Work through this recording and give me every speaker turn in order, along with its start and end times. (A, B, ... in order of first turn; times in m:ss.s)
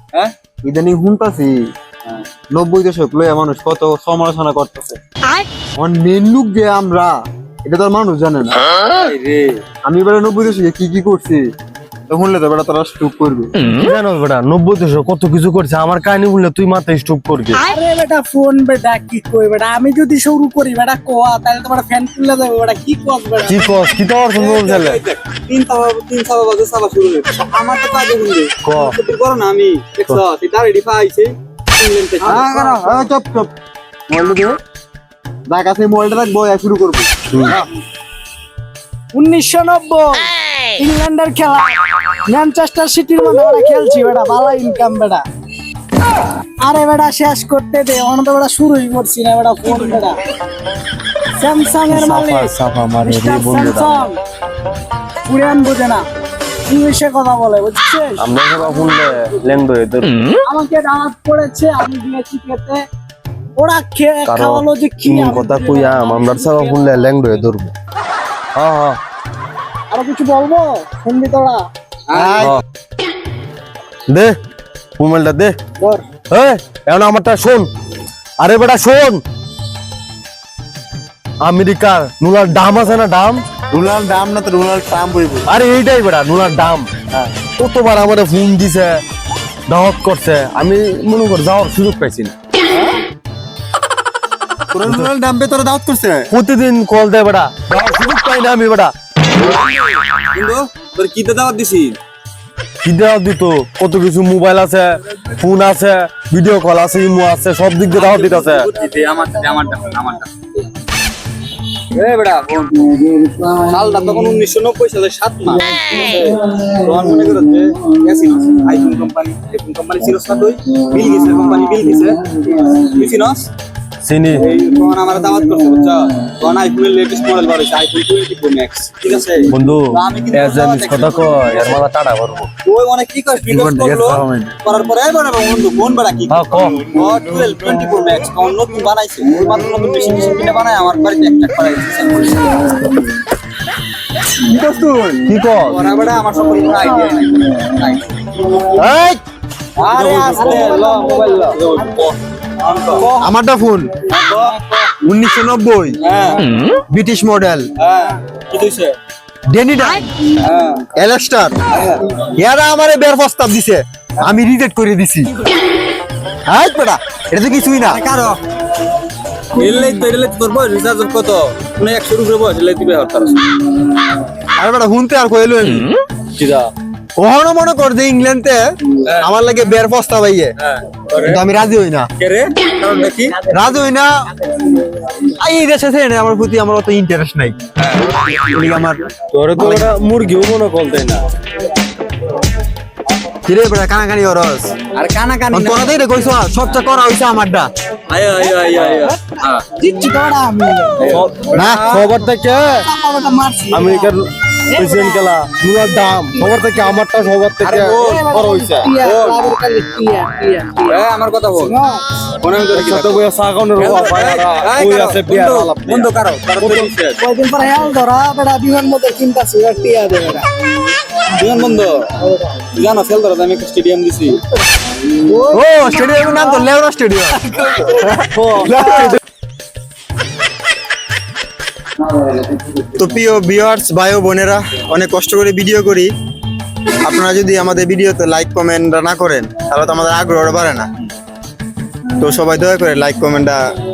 0:00.6-0:01.6 A
0:02.5-0:05.0 A
0:05.8-0:07.1 A
0:07.6-0:08.7 A
0:08.8-0:09.6 B
0:09.8-0:11.4 A
0:12.1-0:13.5 A
0:13.6-0:17.6 C
0:17.6-0:23.8 D
0:23.5-0:25.0 C
0:24.4-0:32.5 B
0:28.6-0:29.0 C
0:32.2-0:33.5 A
0:32.4-0:33.0 D
0:34.1-0:34.6 A
0:35.5-0:37.2 A
0:39.1-0:45.2 D
0:46.6-0:50.2 D
0:51.4-0:54.2 D
0:51.9-0:53.9 C
0:55.3-0:56.0 D
0:56.7-0:59.0 D
0:58.2-1:00.3 C
1:00.5-1:02.8 D
1:03.6-1:07.0 D
1:04.3-1:07.7 C
1:08.6-1:09.0 C
1:09.9-1:11.6 D
1:12.1-1:12.5 B
1:12.1-1:12.6 A
1:14.1-1:14.4 C
1:15.0-1:15.6 C
1:16.3-1:17.7 C
1:18.4-1:19.2 C
1:21.4-1:23.4 C
1:23.7-1:25.5 A
1:25.5-1:26.9 C
1:27.6-1:29.0 C
1:29.7-1:32.3 C
1:34.7-1:36.3 A
1:36.3-1:38.9 C
1:39.4-1:42.0 B
1:42.8-1:48.7 C
1:47.9-1:50.7 B
1:51.9-2:03.5 B
2:04.0-2:04.4 C
2:04.4-2:11.8 B
2:09.5-2:12.5 C
2:12.7-2:22.8 B
2:13.4-2:14.6 A
2:16.3-2:16.8 C
2:24.4-2:25.2 A
2:25.3-2:25.8 C
2:25.7-2:28.6 B
2:28.8-2:29.2 C
2:29.8-2:33.1 B
2:30.1-2:31.5 D
2:33.0-2:33.3 D
2:33.2-2:33.9 A
2:34.1-2:34.9 B
2:35.0-2:36.0 A
2:36.0-2:36.5 B
2:36.9-2:37.7 A
2:37.8-2:39.0 B
2:39.5-2:40.1 A
2:40.4-2:40.8 B
2:41.0-2:41.6 A
2:41.7-2:42.2 B
2:42.4-2:45.3 A
2:46.5-2:48.0 A
2:47.8-2:48.4 B
2:49.5-2:53.5 B
2:54.6-2:55.9 A
2:56.4-2:56.7 B
2:57.2-2:58.6 A
2:59.1-2:59.3 B
2:59.2-3:00.5 A
3:00.6-3:01.4 B
3:01.2-3:02.1 A
3:02.2-3:03.5 B
3:03.5-3:04.1 A
3:05.3-3:07.6 A
3:07.8-3:08.6 B
3:08.5-3:09.0 A
3:09.3-3:11.2 C
3:09.6-3:09.9 A
3:13.4-3:14.8 A
3:14.9-3:16.2 B
3:15.5-3:17.7 A
3:18.1-3:19.6 B
3:19.8-3:21.2 D
3:21.0-3:22.1 B
3:21.1-3:22.8 C
3:21.5-3:21.9 A
3:22.8-3:24.1 D
3:23.7-3:28.8 C
3:24.7-3:25.3 D
3:27.6-3:29.4 B
3:28.0-3:31.0 D
3:30.9-3:31.7 B
3:31.6-3:32.0 D
3:32.4-3:33.2 B
3:32.7-3:36.9 C
3:33.8-3:37.2 B
3:37.2-3:40.4 D
3:41.3-3:42.0 B
3:42.2-3:42.5 D
3:42.8-3:44.4 B
3:45.2-3:46.7 D
3:45.5-3:49.2 A
3:48.4-3:49.2 D
3:52.8-3:56.1 A
3:57.0-4:00.9 A
4:02.2-4:03.6 A